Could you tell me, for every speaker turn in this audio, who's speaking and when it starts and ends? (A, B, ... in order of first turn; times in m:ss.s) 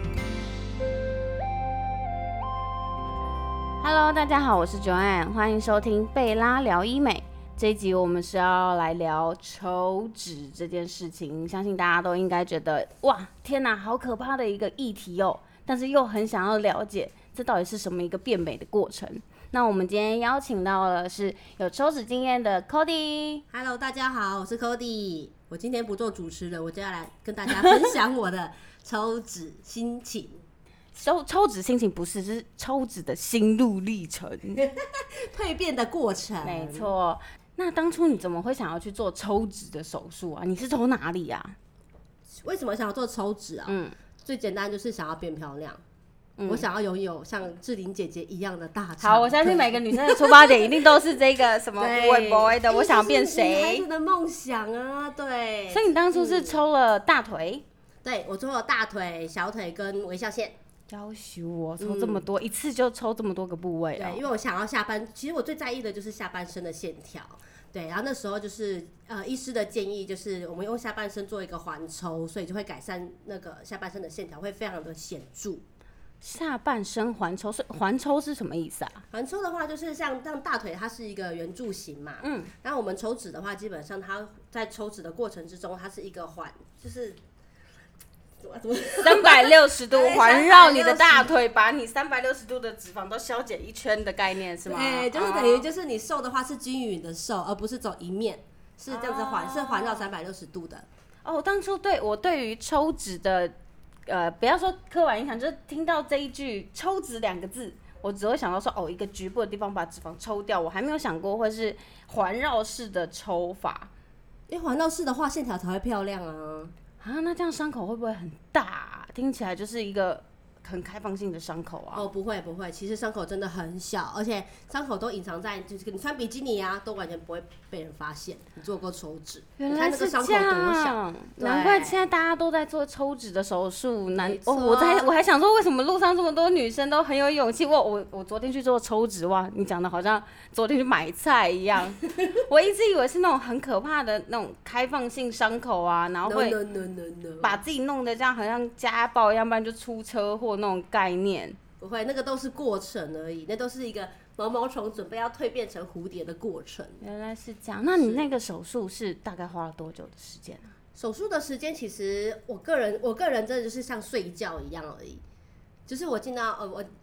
0:03.8-0:23.4 A
0:23.5-0:30.4 B
0:27.5-0:27.9 A
0:30.9-0:34.6 A
0:34.6-0:36.9 B
0:36.4-0:41.6 A
0:42.4-0:45.8 B
0:43.7-0:44.0 A
0:46.4-0:46.6 A
0:46.5-0:50.9 B
0:49.0-0:53.9 A
0:51.8-0:56.6 B
0:55.7-0:57.6 A
0:58.0-1:00.6 B
1:00.9-1:04.2 A
1:01.8-1:02.2 B
1:04.0-1:15.6 B
1:16.2-1:19.0 A
1:19.1-1:27.2 B
1:22.2-1:22.5 A
1:28.4-1:31.4 B
1:29.0-1:35.7 A
1:34.7-1:40.9 B
1:38.9-1:40.1 A
1:41.2-1:43.5 A
1:44.1-1:53.9 A
1:54.5-1:56.7 B
1:57.0-2:02.1 A
2:01.9-2:12.1 B
2:09.6-2:26.6 A
2:14.2-2:15.1 B
2:26.2-2:27.6 B
2:27.4-2:31.6 A
2:31.8-2:37.0 B
2:37.0-2:40.7 A
2:38.0-2:38.3 B
2:41.0-2:45.2 B
2:45.9-2:46.9 B